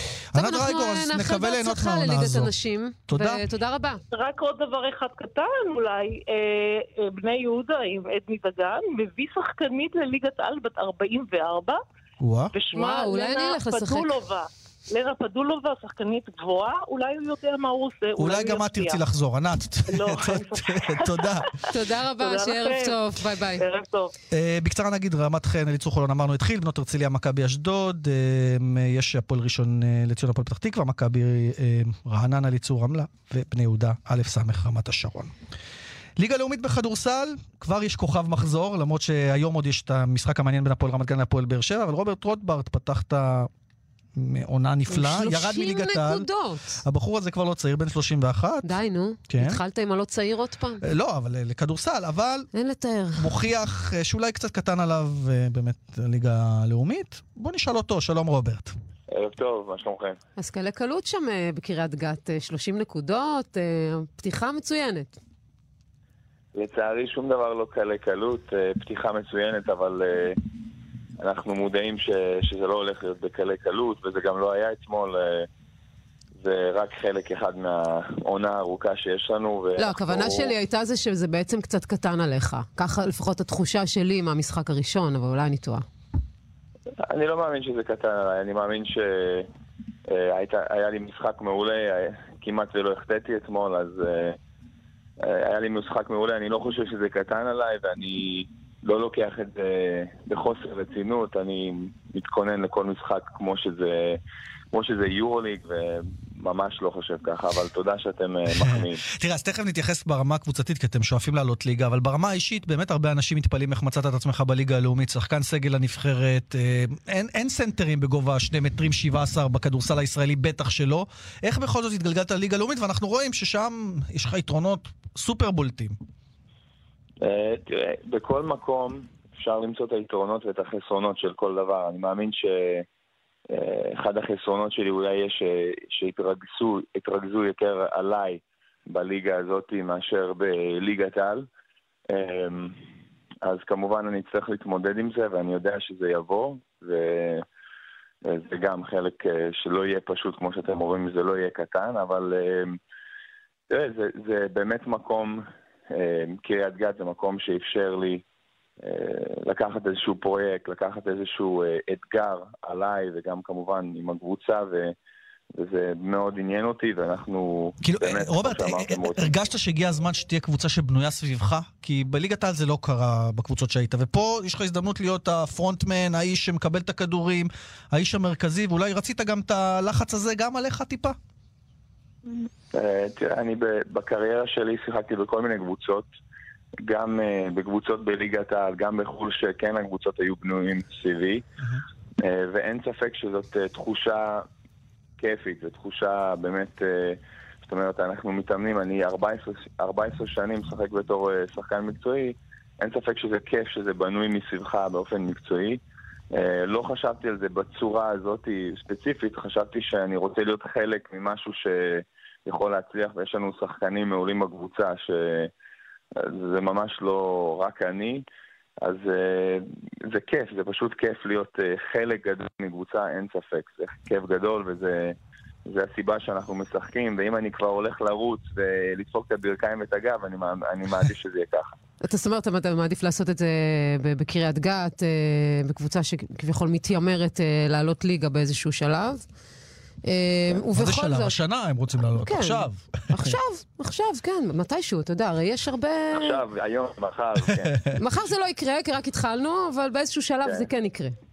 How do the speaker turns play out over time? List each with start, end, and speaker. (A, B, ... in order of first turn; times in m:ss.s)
0:00.3-0:02.5 A
0:00.4-0:04.0 B
0:03.1-0:03.4 A
0:04.1-0:11.8 C
0:12.2-0:12.5 A
0:12.5-0:19.0 C
0:12.7-0:14.1 B
0:18.2-0:21.5 A
0:19.9-0:24.1 C
0:21.7-0:23.6 B
0:24.3-0:35.3 A
0:36.2-0:43.5 A
0:44.2-0:46.3 A
0:44.9-0:46.8 B
0:46.8-0:48.8 A
0:48.6-0:50.8 B
0:49.3-0:49.6 A
0:50.8-0:52.5 A
0:52.5-0:53.3 B
0:53.2-0:58.7 A
0:59.1-1:00.2 D
1:00.4-1:05.2 B
1:06.6-1:10.4 D
1:11.2-1:15.5 D
1:16.4-1:20.5 D
1:19.8-1:25.8 B
1:27.1-1:29.5 D
1:30.1-1:34.4 D
1:35.2-1:44.2 D
1:44.7-1:49.0 D
1:48.6-2:06.0 A
2:07.2-2:12.9 D
2:13.5-2:21.5 D
2:22.1-2:22.8 D
2:23.4-2:27.4 D
2:28.3-2:32.8 D
2:33.7-2:38.2 D
2:38.8-2:45.0 D
2:45.6-2:49.3 D
2:47.8-3:01.2 A
3:02.3-3:06.1 D
3:06.9-3:11.4 D
3:12.2-3:14.5 D
3:15.2-3:25.8 D
3:26.3-3:35.5 D
3:36.2-3:38.2 D
3:38.8-3:45.2 D
3:45.7-3:51.7 D
3:52.0-3:59.2 B
4:00.1-4:01.4 B
4:00.7-4:03.4 A
4:02.2-4:06.4 B
4:06.1-4:07.8 D
4:07.6-4:08.0 A
4:08.0-4:11.2 B